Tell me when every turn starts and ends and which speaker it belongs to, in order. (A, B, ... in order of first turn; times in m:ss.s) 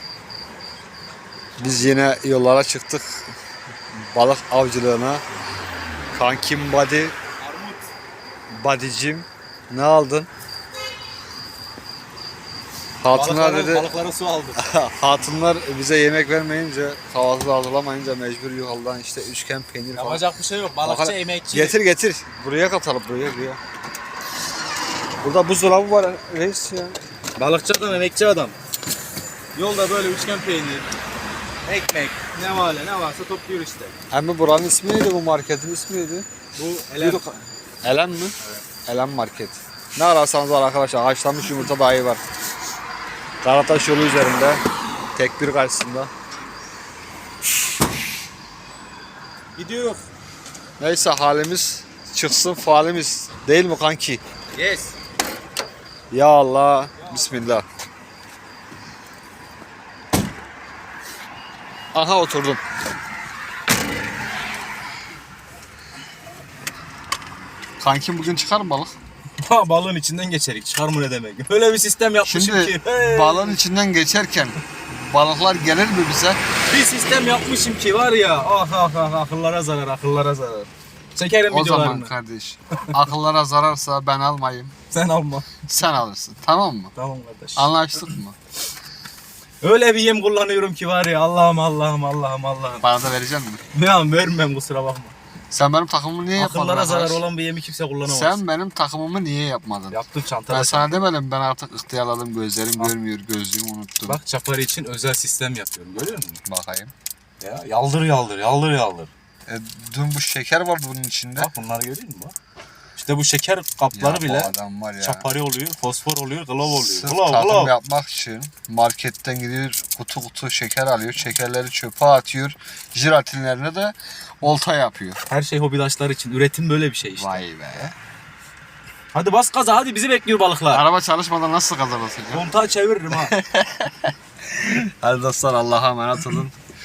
0:01.6-0:03.2 A
0:04.0-0:05.2 A
0:06.1-0:07.1 A
0:07.4-0:07.8 B
0:08.5-0:10.3 A
0:13.0-0:13.9 A
0:13.1-0:14.6 B
0:14.6-0:20.2 A
0:19.9-0:21.8 B
0:20.8-0:23.6 A
0:25.2-0:27.0 A
0:27.4-0:28.6 B
0:29.6-0:30.8 B
0:31.6-0:33.9 B
0:34.1-0:36.2 A
0:36.6-0:37.2 B
0:37.0-0:38.3 A
0:38.8-0:42.2 A
0:43.4-0:44.6 A
0:45.1-0:46.1 A
0:49.5-0:50.0 B
0:50.8-0:54.2 A
0:54.5-0:54.9 B
0:56.1-0:57.6 A
0:57.0-0:57.4 B
1:01.9-1:02.6 A
1:07.8-1:08.9 A
1:09.4-1:13.6 B
1:12.2-1:16.4 A
1:16.7-1:22.1 B
1:21.5-1:24.7 A
1:24.9-1:25.5 B
1:25.7-1:26.9 A
1:27.0-1:27.7 B
1:27.6-1:28.4 A
1:29.6-1:32.8 B
1:32.8-1:33.6 A
1:33.7-1:35.1 B
1:35.5-1:37.2 A
1:36.4-1:38.4 B
1:38.1-1:44.2 A
1:39.9-1:41.0 B
1:44.0-1:46.4 B
1:46.4-1:46.9 A
1:47.4-1:49.1 B
1:49.5-1:51.5 A
1:51.4-1:52.3 B
1:53.0-1:57.7 B
1:53.9-1:55.3 A
1:56.6-2:05.2 A
2:05.3-2:07.4 B
2:07.2-2:07.9 A
2:09.1-2:10.8 B
2:10.7-2:12.5 A
2:12.3-2:13.3 B
2:13.1-2:16.6 A